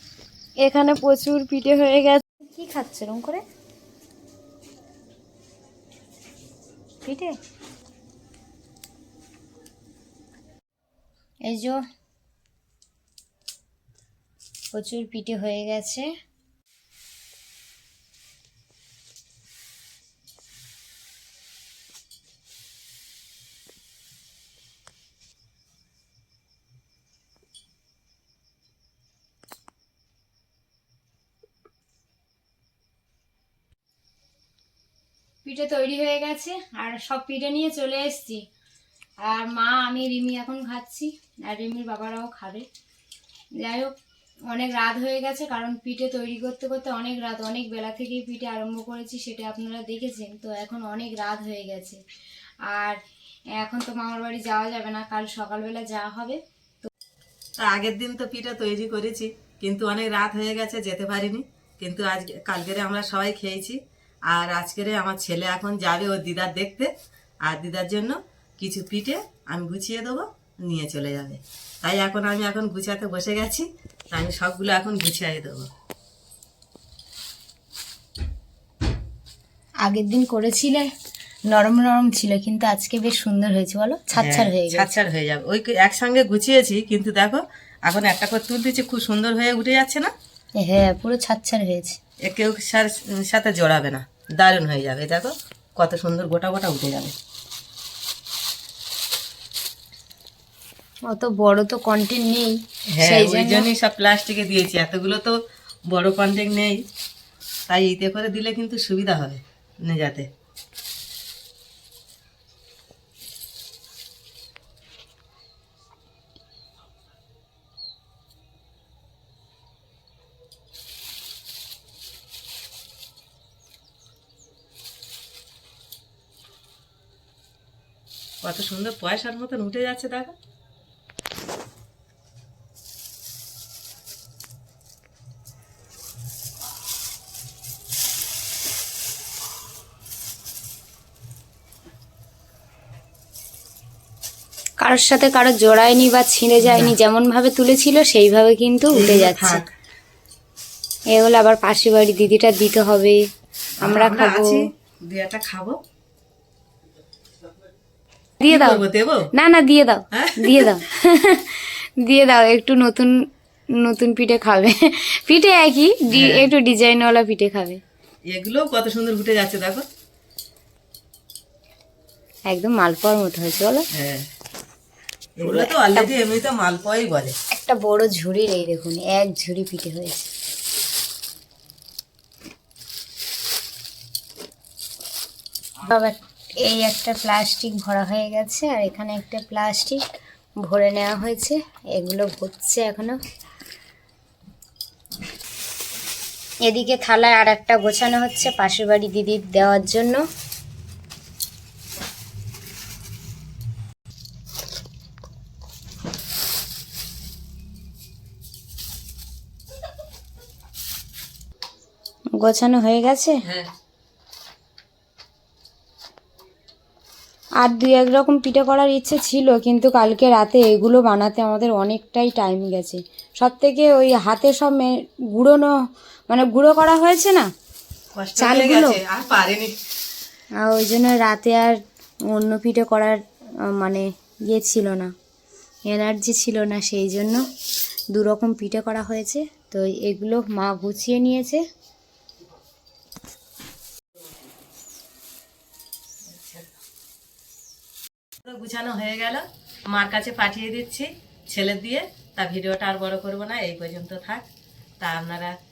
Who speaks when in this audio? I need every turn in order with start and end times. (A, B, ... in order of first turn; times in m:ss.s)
0:00.6-0:03.4 A
0:07.0-0:07.4 A
0:11.5-0:11.8 A
0:14.7-0:16.1 A
0:35.4-0:38.4 A
0:39.2-0:42.6 A
0:43.6-0:43.9 A
0:44.5-0:52.0 A
0:52.7-0:53.0 A
0:53.5-0:56.9 A
0:57.6-1:06.9 B
1:07.4-1:15.7 B
1:19.8-1:20.9 A
1:21.5-1:24.9 A
1:24.2-1:30.1 B
1:30.6-1:32.0 A
1:32.2-1:37.1 B
1:41.0-1:43.7 A
1:42.9-1:46.9 B
1:47.7-1:50.3 B
2:08.4-2:10.4 B
2:24.8-2:29.6 A
2:26.6-2:27.0 B
2:28.9-2:29.7 B
2:31.1-2:33.2 A
2:33.8-2:34.7 A
2:33.8-2:35.8 B
2:38.4-2:47.8 A
2:38.4-2:39.3 B
2:40.1-2:40.8 B
2:46.1-2:46.5 B
2:48.3-2:49.8 B
2:52.5-2:53.9 A
2:53.9-2:54.3 B
2:55.4-2:57.3 B
2:55.4-2:56.1 A
2:57.5-3:00.3 A
3:05.8-3:10.0 A
3:10.6-3:13.2 A
3:16.6-3:20.2 A
3:32.4-3:33.4 A
3:33.4-3:33.7 B
3:37.6-3:45.7 A
3:46.3-3:47.5 A
3:48.1-3:49.7 B
3:48.4-3:49.0 A
3:50.6-3:55.1 A
3:55.9-3:57.4 A
3:58.1-4:01.6 A
4:06.2-4:06.7 B
4:08.4-4:14.5 B
4:15.0-4:15.6 B